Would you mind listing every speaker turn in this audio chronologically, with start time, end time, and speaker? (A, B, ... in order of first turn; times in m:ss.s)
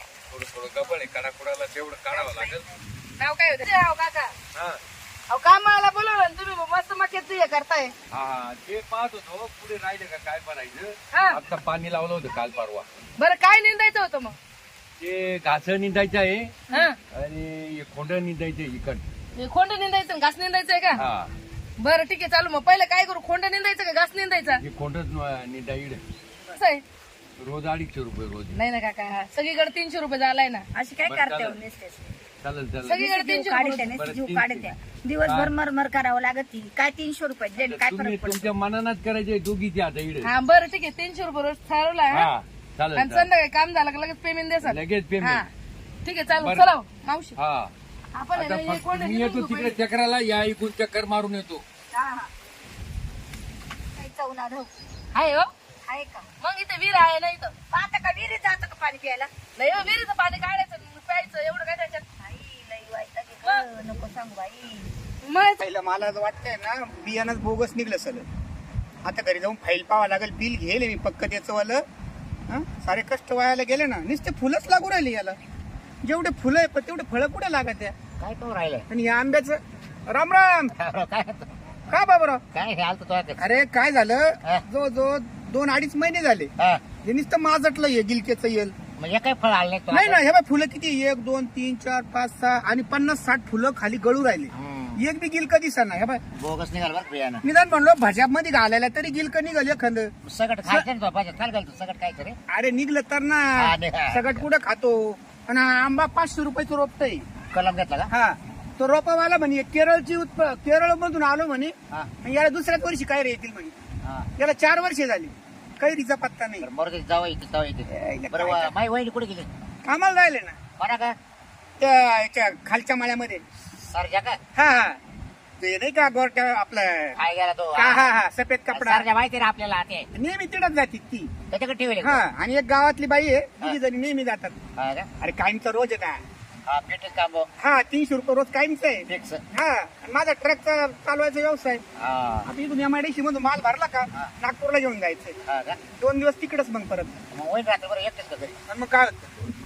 0:00.3-0:02.7 A
0:03.2-0:04.3 B
0:05.3-0:07.9 B
0:08.1-0:12.9 A
0:11.1-0:11.4 B
0:13.2-0:14.4 B
0:15.0-0:19.0 A
0:16.7-0:17.0 B
0:19.3-0:21.0 B
0:20.9-0:21.3 A
0:21.8-0:24.6 B
0:24.6-0:26.0 A
0:26.5-0:26.8 B
0:27.4-0:28.5 A
0:28.5-0:30.6 B
0:30.7-0:32.1 C
0:31.0-0:31.6 A
0:32.4-0:33.0 A
0:32.8-0:33.9 B
0:33.0-0:38.5 C
0:33.9-0:35.5 A
0:37.6-0:40.3 A
0:40.2-0:42.3 B
0:42.1-0:43.3 A
0:42.9-0:45.5 B
0:44.6-0:45.4 A
0:46.0-0:47.4 B
0:46.4-0:46.7 A
0:47.4-0:47.7 A
0:48.2-0:49.8 B
0:48.3-0:51.6 A
0:51.9-0:52.3 C
0:54.0-0:54.7 C
0:55.1-0:55.5 B
0:55.8-0:56.3 C
0:56.4-0:57.5 B
0:57.7-0:59.3 C
0:59.6-1:02.0 B
1:02.2-1:04.9 C
1:05.2-1:05.6 B
1:05.6-1:08.2 D
1:09.0-1:11.8 D
1:12.5-1:15.4 D
1:16.0-1:17.9 D
1:18.2-1:18.9 E
1:18.9-1:20.7 D
1:20.8-1:21.5 E
1:21.9-1:22.4 D
1:22.5-1:23.4 E
1:23.4-1:28.7 D
1:26.6-1:26.8 E
1:29.0-1:30.2 E
1:29.9-1:36.2 D
1:34.5-1:35.0 E
1:36.3-1:37.4 E
1:37.4-1:40.1 D
1:40.2-1:42.4 E
1:42.5-1:47.2 D
1:43.6-1:44.4 E
1:47.5-1:48.1 E
1:48.1-1:53.7 D
1:54.0-1:54.3 E
1:54.4-1:56.7 D
1:56.6-1:59.5 E
1:57.9-1:58.7 D
1:59.8-2:00.6 D
2:00.8-2:01.2 E
2:01.8-2:03.4 D
2:03.8-2:04.4 E
2:04.5-2:05.0 D
2:05.6-2:07.2 D
2:07.2-2:08.1 E
2:07.7-2:09.0 D
2:08.7-2:10.1 E
2:10.1-2:11.3 D
2:11.5-2:12.2 E
2:12.0-2:14.6 D
2:14.8-2:15.1 E
2:15.2-2:16.2 D
2:16.7-2:17.5 E
2:17.6-2:21.8 D
2:19.1-2:19.4 E
2:22.0-2:22.5 E
2:22.5-2:25.4 D
2:25.4-2:25.8 E
2:26.0-2:27.2 D
2:27.3-2:28.6 E
2:28.7-2:29.3 D